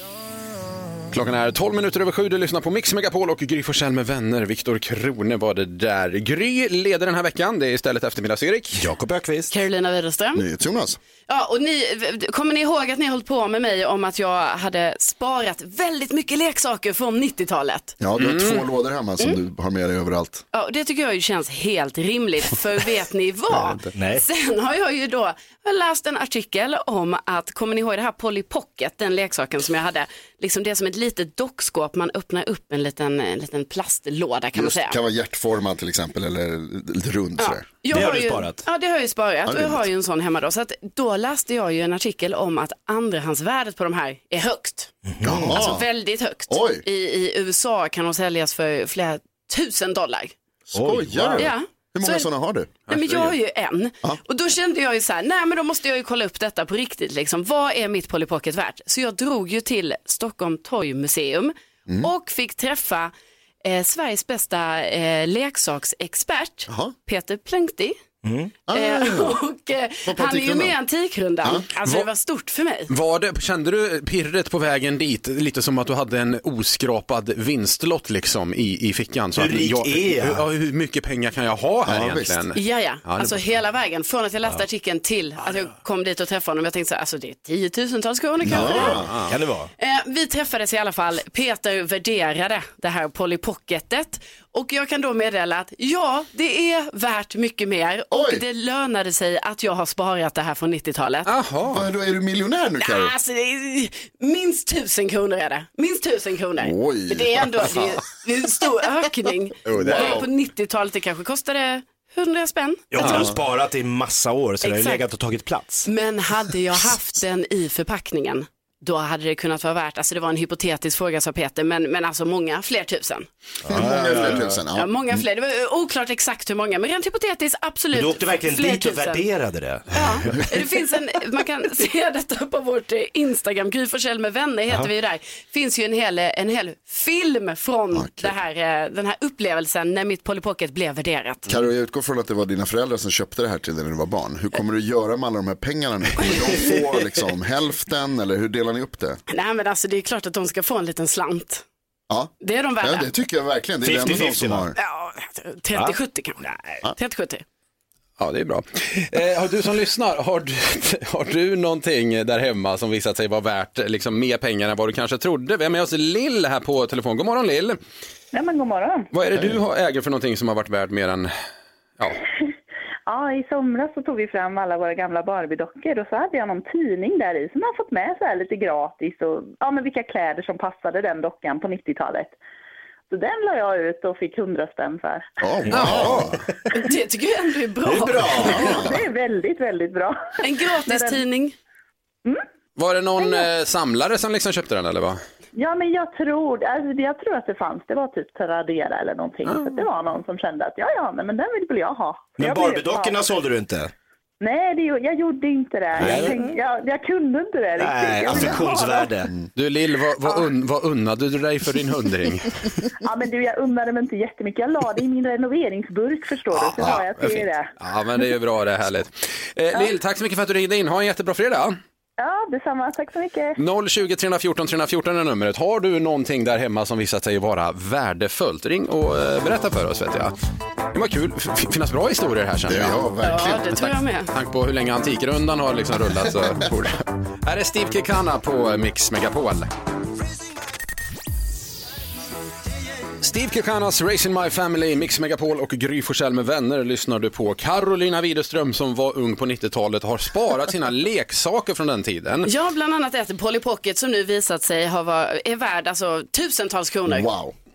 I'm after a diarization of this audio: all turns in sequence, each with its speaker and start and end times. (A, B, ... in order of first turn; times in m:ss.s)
0:01.1-0:08.9 A
0:08.8-0:09.5 B
0:09.5-0:10.4 C
0:10.3-0:11.0 D
0:11.3-0:18.0 C
0:18.0-0:20.4 D
0:18.2-0:18.6 A
0:20.5-0:35.0 C
0:23.9-0:24.2 B
0:34.5-0:37.6 D
0:37.4-0:44.9 C
0:37.9-0:38.6 B
0:39.4-0:39.8 D
0:45.0-0:45.6 B
0:45.2-0:45.9 D
0:45.5-0:50.3 C
0:46.5-0:46.8 D
0:50.7-0:52.8 D
0:50.7-0:51.5 B
0:51.4-0:52.3 C
0:52.9-1:03.1 C
0:52.9-0:53.3 A
1:03.6-1:08.0 C
1:06.7-1:06.9 D
1:08.2-1:08.5 B
1:08.7-1:09.4 D
1:08.7-1:12.9 C
1:10.0-1:10.8 D
1:12.9-1:23.4 A
1:19.3-1:20.4 B
1:21.8-1:22.4 D
1:22.6-1:29.0 C
1:28.4-1:29.7 B
1:28.5-1:29.1 D
1:29.0-1:29.3 A
1:29.8-1:41.3 C
1:38.1-1:38.4 D
1:41.3-1:41.8 A
1:41.7-1:43.1 D
1:42.8-1:53.3 C
1:46.6-1:47.8 D
1:49.6-1:50.3 D
1:52.9-1:55.9 B
1:54.6-1:55.0 C
1:55.8-2:03.3 C
2:03.7-2:04.5 B
2:03.7-2:05.2 D
2:03.8-2:09.2 C
2:07.9-2:10.4 B
2:09.9-2:21.5 C
2:17.9-2:18.3 D
2:21.5-2:29.2 D
2:29.3-2:31.6 C
2:32.1-2:34.8 D
2:32.4-2:33.1 C
2:33.8-2:34.7 B
2:34.8-2:37.4 C
2:35.7-2:36.8 B
2:38.2-2:47.8 A
2:48.3-2:49.1 E
2:49.1-2:51.3 A
2:53.1-3:02.4 E
3:03.1-3:05.2 E
3:05.4-3:06.3 D
3:05.7-3:06.4 A
3:05.8-3:06.3 B
3:06.7-3:08.8 C
3:07.8-3:08.8 B
3:08.5-3:09.0 D
3:08.6-3:11.2 E
3:10.4-3:11.5 C
3:12.8-3:15.2 A
3:13.2-3:13.4 E
3:15.6-3:23.2 E
3:19.4-3:19.8 A
3:22.4-3:23.9 B
3:24.4-3:29.1 E
3:26.0-3:26.5 B
3:27.8-3:29.3 B
3:29.6-3:32.7 A
3:33.0-3:37.7 E
3:36.5-3:41.7 A
3:42.2-3:43.6 E
3:43.6-3:50.3 A
3:50.9-3:53.0 A
3:52.6-3:53.6 D
3:53.2-3:54.3 C
3:53.7-3:59.7 A
4:03.2-4:12.5 A
4:12.4-4:17.3 C
4:17.1-4:17.5 D